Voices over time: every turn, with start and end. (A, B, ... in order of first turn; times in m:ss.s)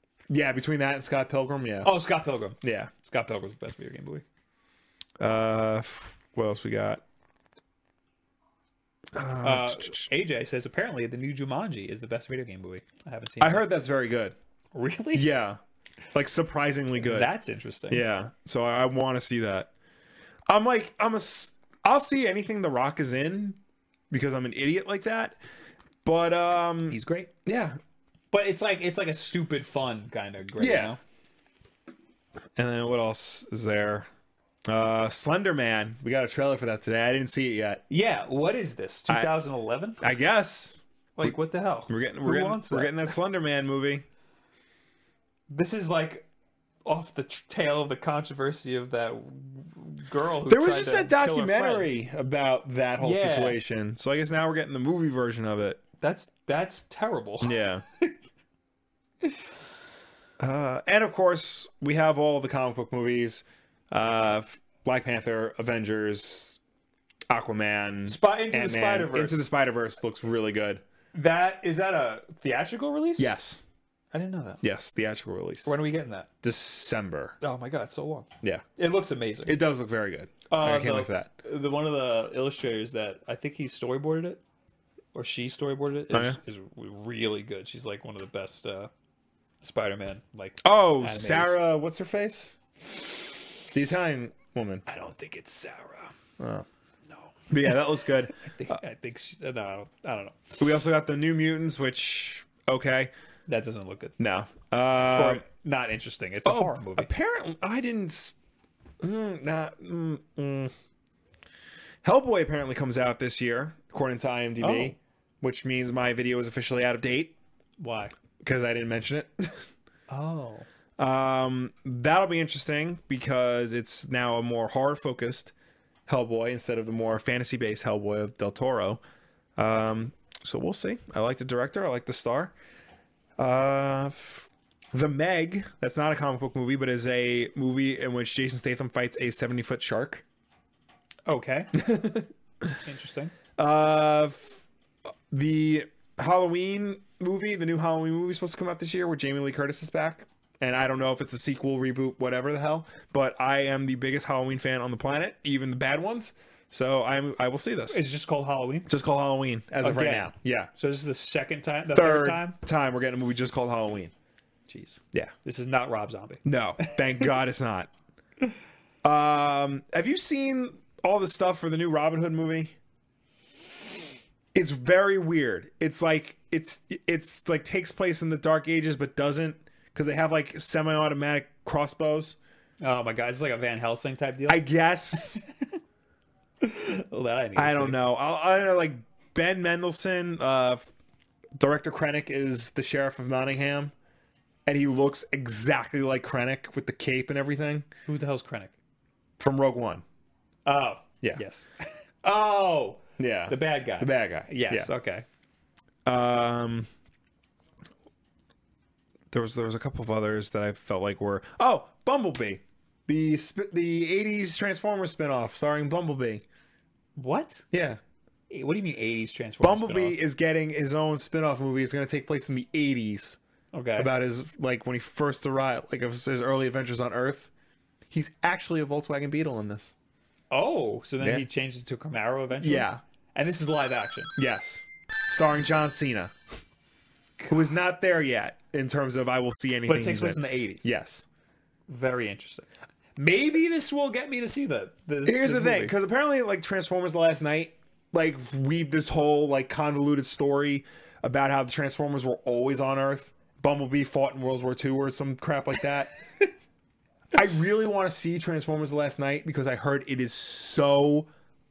0:00.3-0:01.9 A
0:01.8-0:04.2 B
0:02.6-0:02.9 A
0:05.2-0:07.0 A
0:09.1-0:10.1 A
0:09.4-0:13.7 B
0:13.4-0:14.4 A
0:14.7-0:15.3 B
0:15.1-0:15.6 A
0:16.1-0:17.3 A
0:17.0-0:18.0 B
0:17.9-0:19.7 A
0:20.5-0:23.6 A
0:24.1-0:25.4 A
0:26.0-0:27.8 A
0:26.9-0:27.3 B
0:28.3-0:31.0 B
0:30.6-0:31.0 A
0:32.6-0:34.1 A
0:34.7-0:37.8 A
0:37.9-0:40.0 B
0:39.1-0:39.3 A
0:40.0-0:41.4 A
0:41.2-0:43.1 B
0:41.9-0:44.0 A
0:45.5-0:46.2 B
0:46.8-0:51.9 B
0:50.5-0:55.8 A
0:53.0-0:53.6 B
0:56.0-0:58.1 B
0:57.4-0:57.8 A
1:00.4-1:06.6 A
1:07.3-1:10.8 A
1:08.0-1:09.4 B
1:11.1-1:13.3 B
1:13.2-1:13.6 A
1:14.1-1:14.6 B
1:14.6-1:15.8 A
1:15.6-1:16.3 B
1:16.4-1:17.4 A
1:17.4-1:19.6 B
1:19.4-1:21.3 A
1:20.5-1:24.4 B
1:25.1-1:28.9 B
1:26.1-1:26.4 A
1:29.6-1:31.6 B
1:30.6-1:32.6 A
1:33.7-1:34.8 A
1:34.9-1:36.1 B
1:36.4-1:36.6 A
1:37.1-1:40.6 B
1:37.5-1:38.8 A
1:40.6-1:43.1 A
1:43.5-1:44.2 B
1:44.2-1:45.4 A
1:45.1-1:47.1 B
1:46.4-1:48.3 A
1:49.0-1:50.7 A
1:52.0-1:57.4 A
1:54.6-1:55.0 B
1:57.8-1:58.1 B
1:58.4-1:59.7 A
2:00.1-2:00.7 B
2:01.0-2:05.5 A
2:06.1-2:09.0 A
2:09.6-2:12.5 A
2:13.4-2:20.2 A
2:21.2-2:21.7 B
2:21.7-2:22.7 A
2:22.8-2:23.3 B
2:23.6-2:24.6 A
2:25.3-2:38.0 A
2:37.9-2:38.9 B
2:38.9-2:40.7 A
2:39.8-2:42.6 B
2:41.9-2:44.1 A
2:44.7-2:47.3 B
2:46.4-2:47.9 A
2:49.0-2:52.7 A
2:54.5-3:02.4 A
3:02.8-3:04.7 B
3:04.5-3:05.4 A
3:06.6-3:08.0 B
3:07.6-3:10.9 A
3:11.6-3:13.9 A
3:14.6-3:17.9 A
3:18.0-3:18.7 B
3:19.4-3:20.0 A
3:20.6-3:21.7 B
3:22.2-3:25.2 B
3:23.2-3:24.9 A
3:26.0-3:26.9 A
3:29.3-3:36.4 A
3:37.2-3:37.6 B
3:37.7-3:38.0 A
3:38.5-3:40.2 B
3:39.6-3:43.4 A
3:43.7-3:44.1 B
3:44.0-3:47.5 A
3:48.1-3:49.9 A
3:50.5-3:54.3 B
3:51.2-3:51.4 A
3:52.6-3:53.0 A
3:54.4-3:56.3 A
3:57.4-4:01.2 A
3:59.9-4:00.9 B
4:01.9-4:05.9 B
4:05.2-4:16.1 A
4:17.3-4:21.3 A